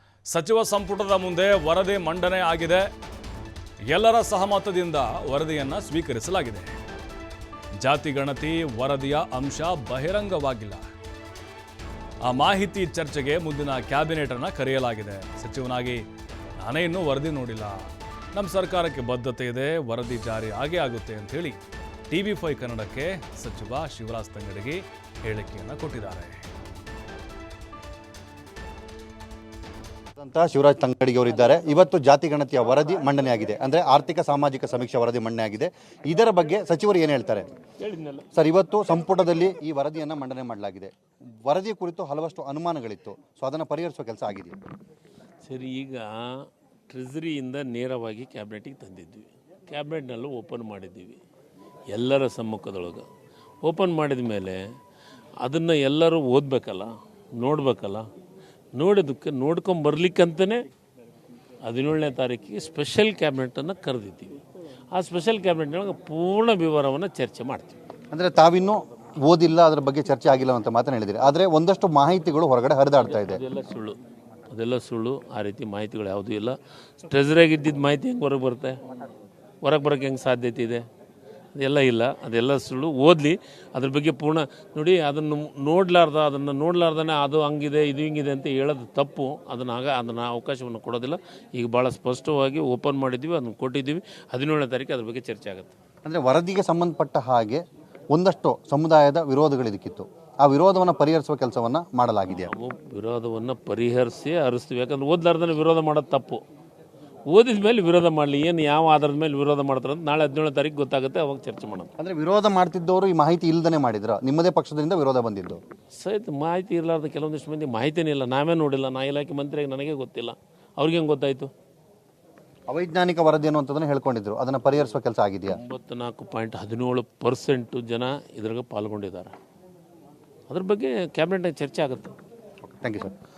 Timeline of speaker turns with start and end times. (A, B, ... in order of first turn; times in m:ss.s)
0:00.3-0:02.9 A
0:03.9-0:06.7 A
0:07.8-0:10.8 A
0:12.2-0:16.0 A
0:16.6-0:21.6 A
0:22.1-0:26.4 A
0:30.2-0:37.5 B
0:37.8-0:38.2 C
0:38.3-0:40.9 B
0:41.4-0:44.6 B
0:45.4-0:51.2 C
0:51.9-0:53.0 C
0:53.6-0:54.6 C
0:55.4-0:58.1 C
0:58.8-1:00.6 C
1:01.6-1:04.4 C
1:04.9-1:07.8 C
1:08.1-1:13.4 B
1:13.0-1:14.0 C
1:14.5-1:18.8 C
1:19.6-1:20.8 C
1:21.6-1:35.7 C
1:36.0-1:42.5 B
1:42.3-1:46.4 C
1:47.3-1:51.9 C
1:52.0-1:55.6 B
1:56.0-2:01.5 C
2:02.7-2:05.6 B
2:05.5-2:09.3 C
2:10.5-2:12.1 C
2:12.7-2:13.1 B